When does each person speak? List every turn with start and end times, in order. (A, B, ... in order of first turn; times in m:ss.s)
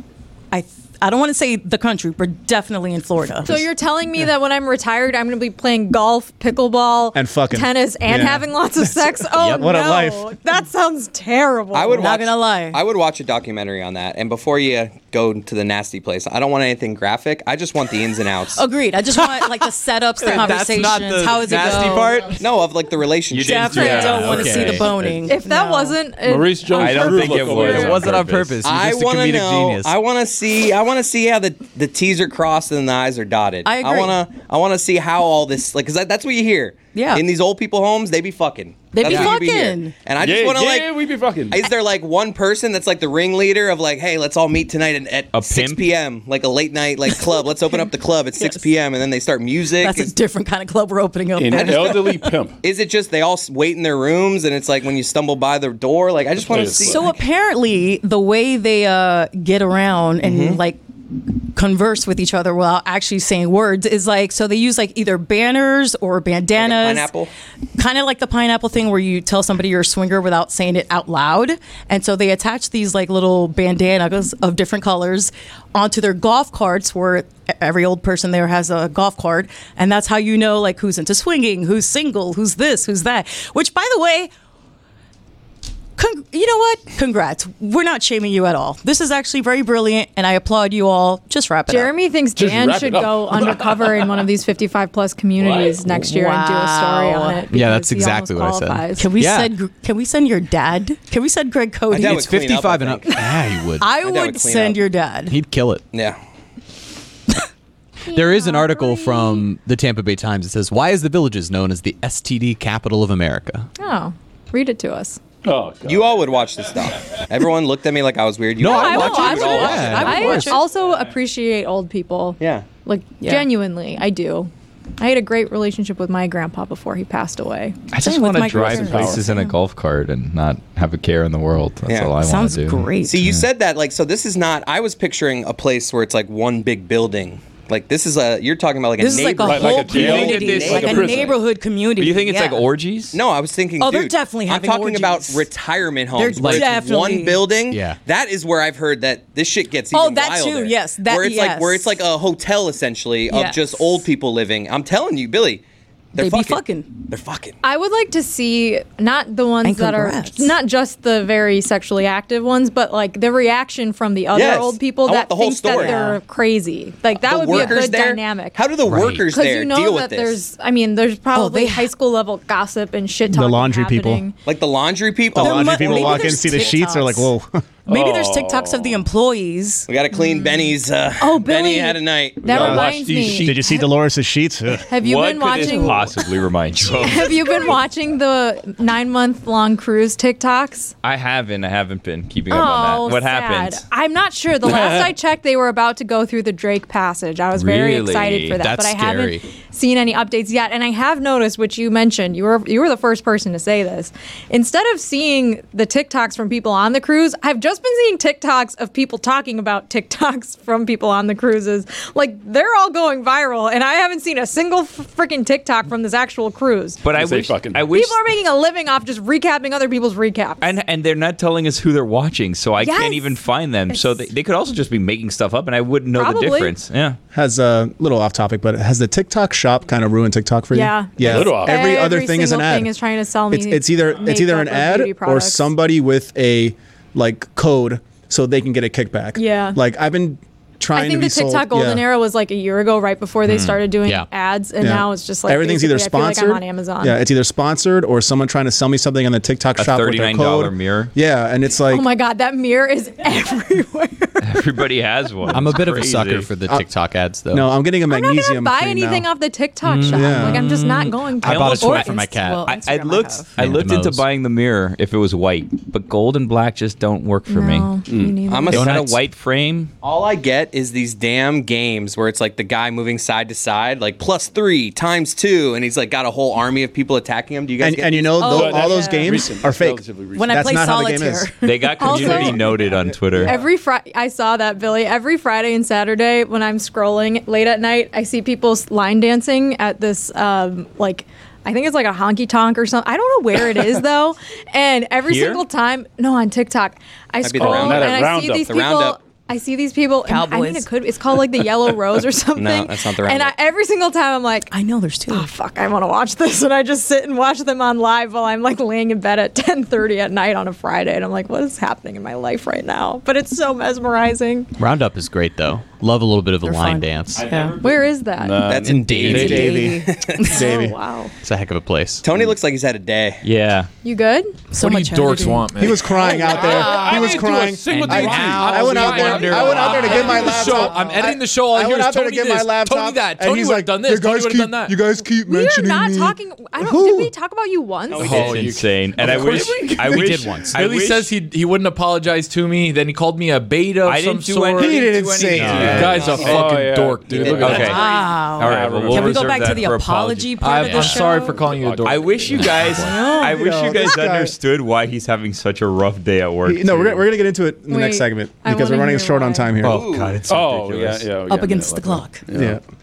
0:00.5-0:03.6 A
0:03.4-0:12.0 B
0:07.1-0:10.3 C
0:09.4-0:09.7 D
0:11.7-0:18.6 E
0:11.9-0:12.8 A
0:18.5-0:22.2 A
0:19.2-0:19.5 D
0:20.2-0:22.4 D
0:22.4-0:24.5 E
0:23.3-0:24.8 F
0:23.4-0:26.0 A
0:24.0-0:24.9 D
0:24.9-0:25.2 G
0:25.2-0:27.3 B
0:26.2-0:28.2 G
0:26.7-0:28.6 F
0:27.4-0:29.9 D
0:28.6-0:50.1 E
0:33.6-0:34.2 A
0:36.9-0:37.2 A
0:38.9-0:40.0 A
0:39.0-0:39.3 D
0:40.2-0:41.6 G
0:45.3-0:45.9 F
0:47.1-0:48.7 A
0:49.8-0:52.1 A
0:51.4-0:52.6 G
0:51.5-0:57.1 E
0:56.4-0:57.1 G
0:56.8-1:07.1 A
1:00.2-1:00.6 E
1:06.5-1:07.3 E
1:07.8-1:24.3 A
1:26.0-1:31.9 A
1:31.7-1:39.1 B
1:32.4-1:34.2 G
1:35.4-1:35.8 G
1:35.9-1:37.4 A
1:37.5-1:39.5 D
1:39.0-1:42.4 A
1:41.9-1:43.3 E
1:42.0-1:43.9 D
1:43.8-1:45.4 A
1:43.9-1:44.8 E
1:45.3-1:45.8 D
1:45.9-1:46.2 E
1:48.1-1:49.4 B
1:48.1-1:53.7 D
1:53.8-1:55.2 B
1:55.4-1:56.2 G
1:55.8-2:00.4 E
1:58.6-2:00.6 D
1:58.7-2:07.8 B
1:59.0-2:00.6 A
2:02.4-2:02.6 E
2:03.2-2:03.5 A
2:07.9-2:09.5 A
2:07.9-2:13.4 F
2:08.8-2:09.2 G
2:11.9-2:12.2 E
2:12.2-2:13.2 A
2:13.0-2:21.4 E
2:19.0-2:22.6 A
2:19.4-2:21.3 G
2:19.9-2:21.3 F
2:22.0-2:23.2 F
2:23.1-2:35.6 E
2:23.8-2:25.5 A
2:26.1-2:27.5 A
2:26.4-2:26.7 D
2:27.7-2:28.0 D
2:29.9-2:32.0 A
2:33.3-2:34.0 A
2:36.1-2:37.6 E
2:36.2-2:36.9 A
2:37.6-2:48.6 B
2:39.6-2:40.5 A
2:44.3-2:46.0 E
2:45.6-2:46.2 A
2:47.1-2:50.4 E
2:48.8-2:49.2 D
2:49.3-2:54.3 B
2:51.3-2:51.9 A
2:53.3-2:54.2 C
2:54.4-2:56.8 E
2:55.3-2:57.6 C
2:55.4-2:57.3 A
2:57.9-2:59.0 G
2:57.9-2:59.9 A
2:59.9-3:02.8 E
3:00.1-3:00.6 B
3:01.2-3:03.8 B
3:02.4-3:03.5 G
3:02.5-3:04.8 C
3:04.9-3:06.2 B
3:05.0-3:07.7 F
3:05.6-3:06.0 A
3:06.8-3:10.9 B
3:11.0-3:13.8 F
3:12.5-3:37.0 B
3:14.6-3:15.1 G
3:17.5-3:18.6 F
3:18.6-3:19.4 D
3:37.0-3:38.2 F
3:37.1-3:37.9 G
3:37.9-3:40.7 B
3:40.6-3:47.2 F
3:42.8-3:44.2 B
3:46.1-3:46.7 B
3:47.3-3:52.9 C
3:50.7-3:55.7 B
3:51.2-3:52.1 G
3:53.5-4:02.0 C
3:59.4-3:59.8 B
4:00.9-4:07.2 B
4:03.5-4:04.3 D
4:04.8-4:12.0 C
4:09.8-4:11.1 F
4:11.9-4:14.5 B
4:14.4-4:16.5 F
4:15.5-4:17.7 D
4:17.5-4:19.3 C
4:18.1-4:22.4 B
4:19.8-4:22.1 F
4:20.1-4:20.6 C
4:21.4-4:22.7 D
4:22.1-4:23.6 A
4:22.6-4:27.9 F
4:23.6-4:24.2 D
4:27.5-4:28.8 B
4:28.1-4:28.4 G
4:28.5-4:29.1 E
4:28.7-4:29.9 F
4:28.7-4:29.2 D
4:30.0-4:38.6 E
4:37.8-4:41.5 C
4:38.4-4:39.3 B
4:38.4-4:40.7 G
4:40.3-4:42.4 A
4:41.6-4:43.6 F
4:42.0-4:42.6 B
4:42.2-4:43.0 C
4:43.3-4:43.6 G
4:43.4-5:04.7 B
4:55.3-4:55.6 F
4:57.4-4:59.2 E
4:57.6-4:58.7 G
5:00.3-5:00.9 A
5:02.6-5:03.5 E
5:04.7-5:05.5 A
5:05.3-5:14.7 B
5:14.8-5:17.5 D
5:16.6-5:17.8 A
5:17.3-5:18.1 F
5:17.8-5:18.7 B
5:18.4-5:19.5 G
5:18.6-5:20.6 E
5:18.9-5:19.7 D
5:19.2-5:20.9 C
5:19.2-5:20.7 A
5:20.5-5:21.3 B
5:21.4-5:22.2 D
5:22.2-5:23.4 E
5:23.4-5:23.9 F
5:24.0-5:24.6 B
5:24.7-5:25.8 A
5:24.8-5:35.0 H
5:25.8-5:37.3 C
5:26.2-5:30.7 G
5:26.3-5:27.0 A
5:29.2-5:30.3 F
5:30.1-5:30.4 A
5:30.1-5:30.4 B
5:30.9-5:31.2 A
5:35.4-5:38.5 B
5:38.2-5:48.0 H
5:38.2-5:41.3 F
5:40.0-5:40.8 D
5:44.0-5:46.6 F
5:44.8-5:46.4 C
5:45.5-5:46.2 D
5:46.0-5:46.6 E
5:46.2-5:49.5 G
5:47.5-5:50.6 F
5:47.7-5:51.5 A
5:50.6-5:53.1 H
5:50.8-5:51.2 D
5:51.0-5:51.6 B
5:51.6-5:52.7 G
5:52.0-5:57.2 F
5:52.6-5:53.1 D
5:53.0-5:54.0 A
5:53.4-5:54.5 C
5:56.6-6:00.0 C
5:57.9-5:59.7 B
5:59.8-6:00.4 E
5:59.8-6:01.3 F
6:00.4-6:02.8 G
6:01.4-6:02.4 A
6:02.5-6:02.8 C